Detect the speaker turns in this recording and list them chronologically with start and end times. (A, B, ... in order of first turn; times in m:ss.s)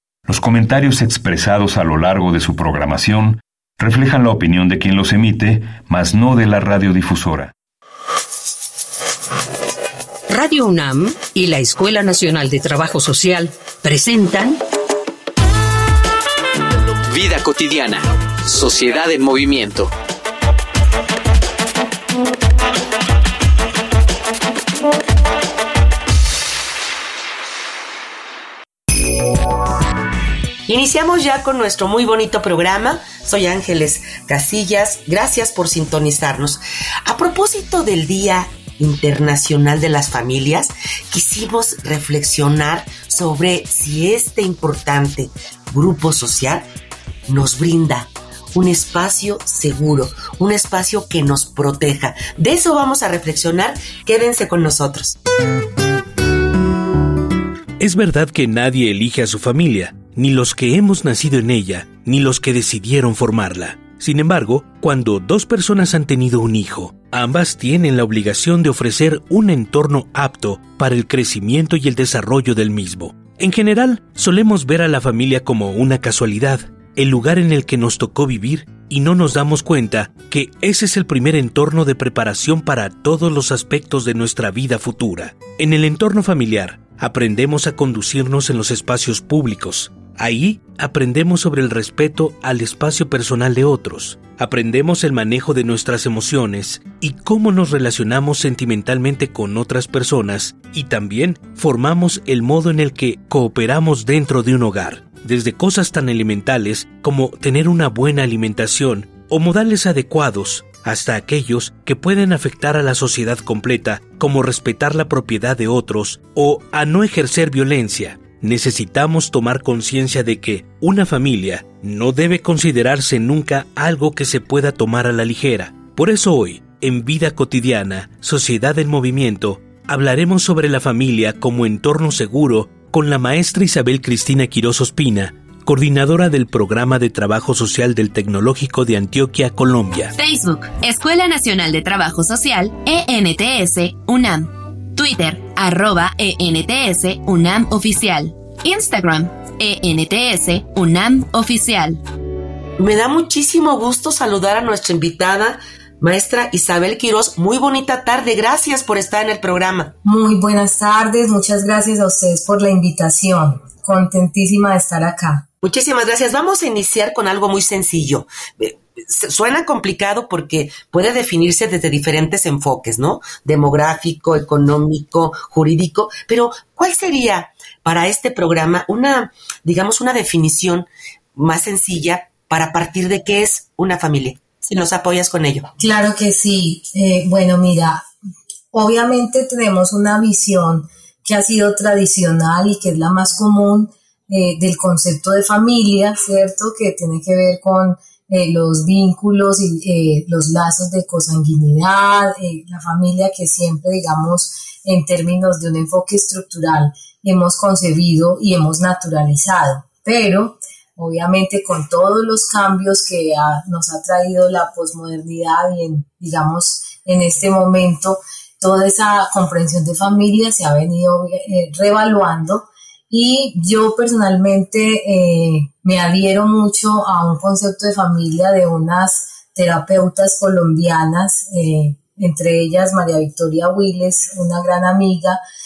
0:00.2-0:07.5 A
0:10.3-0:14.6 B
0:17.1-0:19.9 C
0:30.7-0:46.6 D
0:47.3-0:55.2 D
0:57.8-2:20.1 E
2:20.2-2:32.0 F
2:32.8-2:39.9 D
2:40.0-2:45.5 G
2:45.6-3:05.7 D
3:05.8-3:08.1 G
3:08.7-3:55.4 G